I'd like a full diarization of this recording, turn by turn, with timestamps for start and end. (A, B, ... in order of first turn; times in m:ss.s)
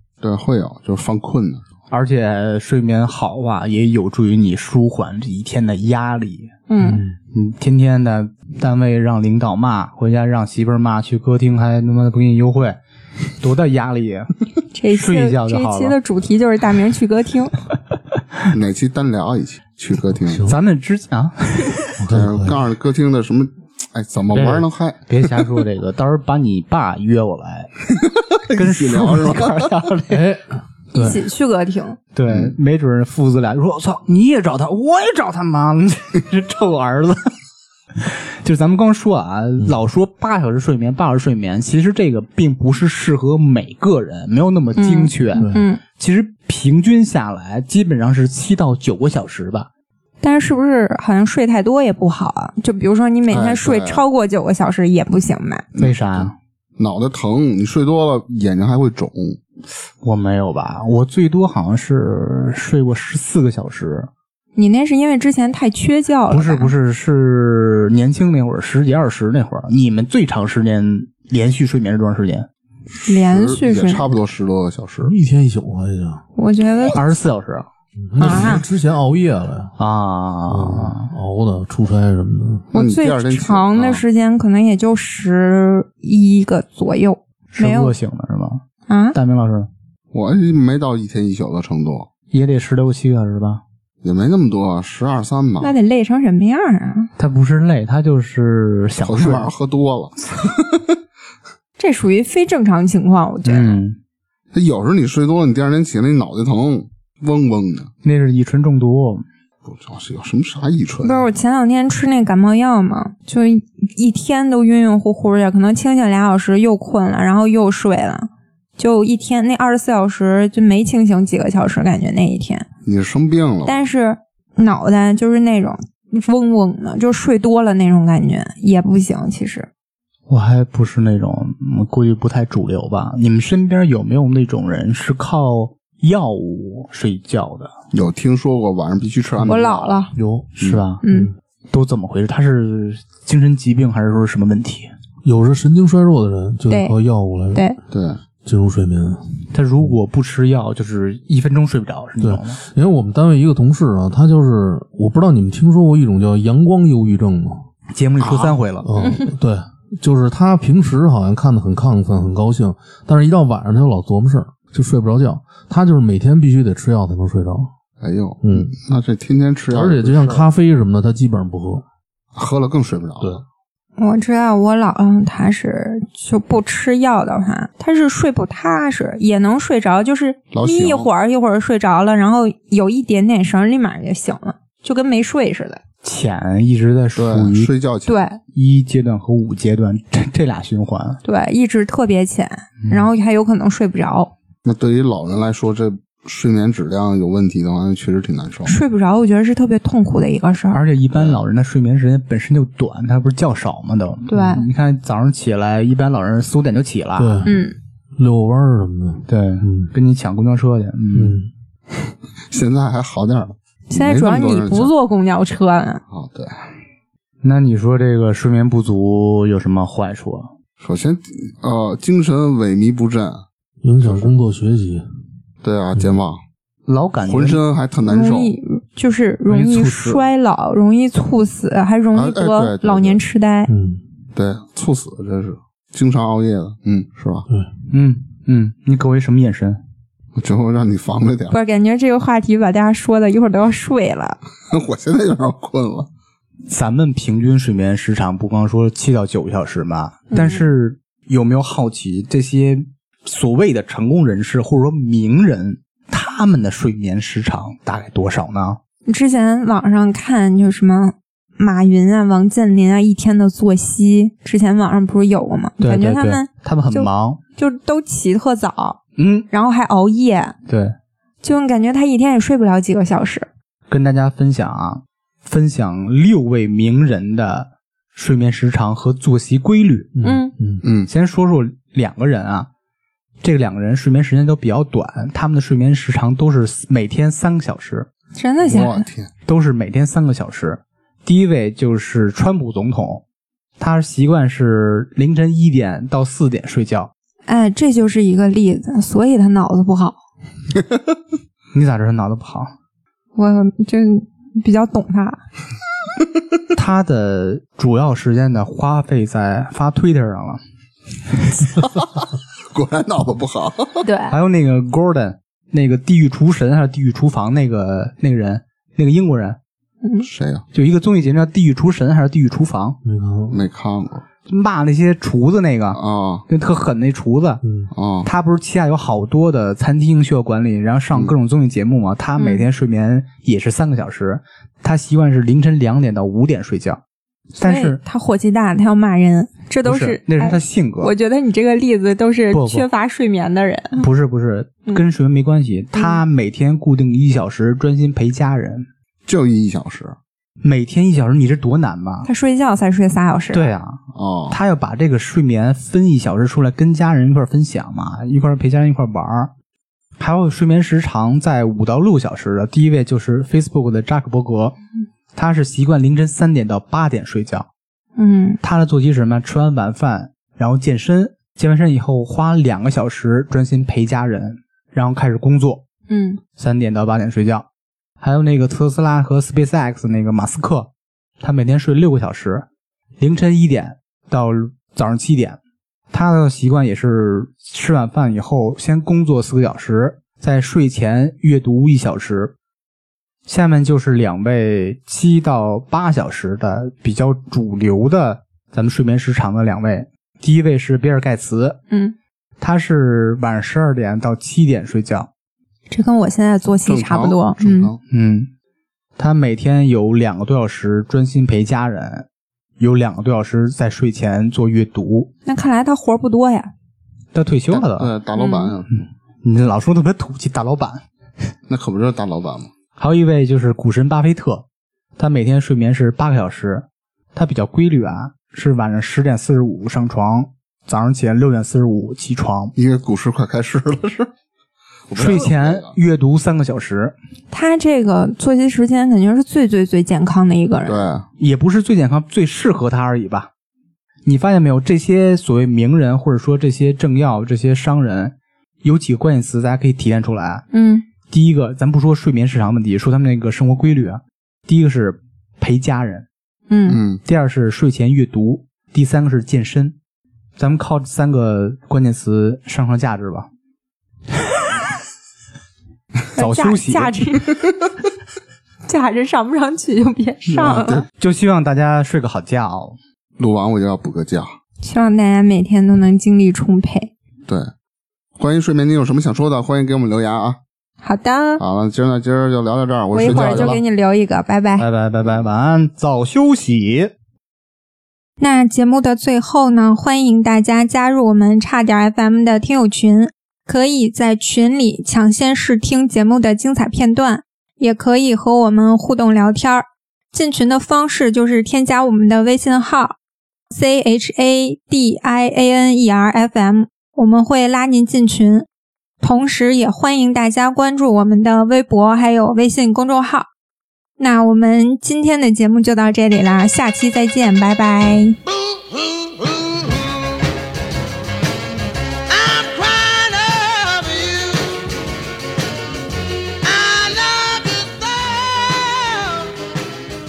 0:00.2-0:01.6 A
0:01.9-0:06.5 B
0:06.7-0:07.0 C
0:06.8-0:07.2 D
0:07.3-0:12.8 B
0:13.4-0:14.3 B
0:14.7-0:17.6 C
0:14.9-0:16.0 B
0:18.5-0:20.5 A
0:20.2-0:20.6 D
0:20.5-0:22.0 B
0:22.0-0:22.6 D
0:22.1-0:25.4 A
0:24.3-0:27.7 B
0:28.4-0:29.7 A
0:28.5-0:30.2 B
0:30.1-0:31.2 D
0:30.9-0:32.0 C
0:32.2-0:37.3 B
0:32.3-0:32.5 A
0:38.0-0:49.7 B
0:44.8-0:45.8 C
0:45.4-0:45.7 D
0:50.2-0:55.6 C
0:53.3-0:54.0 A
0:55.8-0:59.4 A
0:55.8-0:56.3 B
1:00.0-1:04.1 B
1:04.6-1:06.7 C
1:06.3-1:12.5 B
1:13.0-1:15.1 A
1:13.1-1:14.1 C
1:15.0-1:16.2 D
1:16.4-1:17.0 C
1:16.9-1:17.7 B
1:18.0-1:19.7 D
1:18.2-1:18.7 C
1:19.8-1:21.1 B
1:20.5-1:22.6 D
1:22.7-1:27.9 C
1:22.7-1:24.0 A
1:27.5-1:29.7 B
1:28.9-1:29.2 C
1:30.1-1:32.1 A
1:32.3-1:33.6 B
1:34.0-1:35.8 A
1:35.6-1:37.1 C
1:37.2-1:39.5 B
1:39.0-1:41.0 A
1:41.8-1:43.8 C
1:43.4-1:44.0 B
1:44.5-1:47.9 A
1:48.0-1:49.2 B
1:49.7-1:51.2 A
1:51.0-2:02.7 C
2:02.8-2:03.8 A
2:03.6-2:09.7 C
2:10.3-2:17.7 B
2:17.9-2:20.0 A
2:19.4-2:20.1 C
2:20.2-2:20.5 D
2:20.6-2:21.0 B
2:21.0-2:21.3 C
2:21.1-2:21.3 D
2:21.7-2:24.9 B
2:25.2-2:27.6 D
2:26.7-2:27.0 C
2:27.5-2:27.8 C
2:27.9-2:28.2 A
2:28.4-2:29.2 D
2:29.5-2:32.6 B
2:32.2-2:37.6 D
2:37.9-2:38.9 B
2:38.2-2:38.6 A
2:38.8-2:47.7 D
2:39.0-2:39.3 C
2:48.0-2:50.4 A
2:48.4-2:48.8 D
2:49.7-2:51.8 D
2:52.4-2:53.4 A
2:54.0-3:05.8 C
3:00.5-3:01.1 A
3:06.0-3:07.7 B
3:07.2-3:08.2 A
3:08.1-3:08.4 C
3:08.6-3:11.2 B
3:11.2-3:14.3 C
3:14.6-3:18.7 A
3:18.6-3:20.8 C
3:20.7-3:27.4 B
3:21.2-3:21.4 A
3:24.3-3:24.6 C
3:27.2-3:27.6 D
3:27.4-3:27.8 C
3:28.2-3:29.9 D
3:29.3-3:31.4 B
3:31.1-3:31.5 D
3:32.5-3:34.9 A
3:33.9-3:36.0 C
3:36.1-3:36.7 A
3:37.4-3:40.5 B
3:40.8-3:43.4 A
3:43.8-3:45.0 D
3:44.0-3:44.3 A
3:45.6-3:46.4 A
3:46.9-3:47.6 B
3:47.2-3:48.5 A
3:48.1-3:53.7 C
3:49.6-3:50.1 D
3:49.8-3:50.2 B
3:52.1-3:53.2 A
3:53.7-3:54.0 D
3:54.4-3:57.5 A
3:57.9-3:59.8 B
4:00.4-4:01.6 A
4:01.5-4:04.4 C
4:04.7-4:06.1 A
4:06.7-4:18.8 B
4:10.3-4:10.6 C
4:19.1-4:29.0 C
4:25.8-4:27.4 B
4:29.2-4:29.5 B
4:29.5-4:30.6 C
4:30.7-4:31.0 B
4:31.4-4:33.5 C
4:33.9-4:40.1 B
4:40.2-4:40.8 D
4:40.2-4:40.5 C
4:40.8-4:41.1 A
4:41.1-4:42.7 B
4:43.4-4:48.1 B
4:48.4-4:49.1 C
4:48.6-4:49.3 A
4:49.5-4:53.2 B
4:53.8-4:57.1 B
4:57.5-5:00.2 C
5:01.7-5:02.7 B
5:03.4-5:05.4 C
5:06.7-5:10.6 B
5:11.8-5:12.1 A
5:12.7-5:14.0 A
5:14.0-5:14.4 C
5:14.3-5:19.6 B
5:20.2-5:20.6 A
5:20.7-5:23.0 B
5:23.0-5:23.6 D
5:23.5-5:24.2 A
5:24.5-5:27.6 B
5:25.9-5:26.4 A
5:27.6-5:27.9 D
5:27.9-5:28.3 A
5:28.2-5:37.0 B
5:32.4-5:32.7 C
5:37.6-5:38.0 B
5:37.6-5:44.1 C
5:39.8-5:41.1 B
5:42.5-5:42.9 B
5:44.0-5:48.9 B
5:46.0-5:46.2 C
5:49.3-5:50.2 A
5:50.6-5:52.3 B
5:52.2-5:53.7 C
5:53.5-5:59.5 B
5:54.2-5:54.6 A
6:00.2-6:04.8 B
6:05.3-6:07.7 B
6:08.2-6:08.6 C
6:08.6-6:15.8 B
6:16.1-6:16.4 C
6:16.6-6:17.7 B
6:18.2-6:20.9 B
6:21.4-6:22.6 B
6:23.2-6:25.6 B
6:26.1-6:32.5 B
6:33.5-6:41.8 B
6:41.9-6:42.2 C
6:42.6-6:45.3 B
6:45.9-6:47.9 C
6:46.8-6:48.0 A
6:48.1-6:48.5 B
6:49.2-6:52.3 B
6:52.8-6:55.3 B
6:55.5-6:56.7 C
6:57.3-6:58.1 B
6:57.7-6:58.9 A
6:58.4-6:58.7 C
6:59.4-7:01.0 B
7:01.7-7:02.7 A
7:03.0-7:04.6 B
7:05.2-7:12.7 B
7:12.8-7:14.3 A
7:15.1-7:15.9 A
7:15.1-7:17.2 B
7:17.5-7:21.1 C
7:20.9-7:21.3 A
7:21.4-7:23.5 B
7:24.2-7:30.6 B
7:30.7-7:31.0 C
7:31.3-7:36.3 B
7:36.7-7:37.0 C
7:36.9-7:37.2 A
7:37.3-7:40.0 B
7:40.6-7:43.5 B
7:46.4-7:47.6 C
7:46.4-7:47.1 B
7:48.9-7:51.0 C
7:50.5-7:51.1 A
7:51.2-7:53.0 B
7:53.4-7:54.5 A
7:54.8-7:57.1 C
7:58.4-8:00.6 A
8:01.0-8:01.6 C
8:01.6-8:03.8 A
8:03.1-8:04.9 C
8:03.2-8:03.8 B
8:04.8-8:07.1 B
8:08.4-8:23.2 C
8:23.7-8:28.7 C
8:29.2-8:33.5 C
8:34.2-8:38.4 C
8:38.6-8:40.4 E
8:42.3-8:44.8 E
8:46.6-8:49.6 E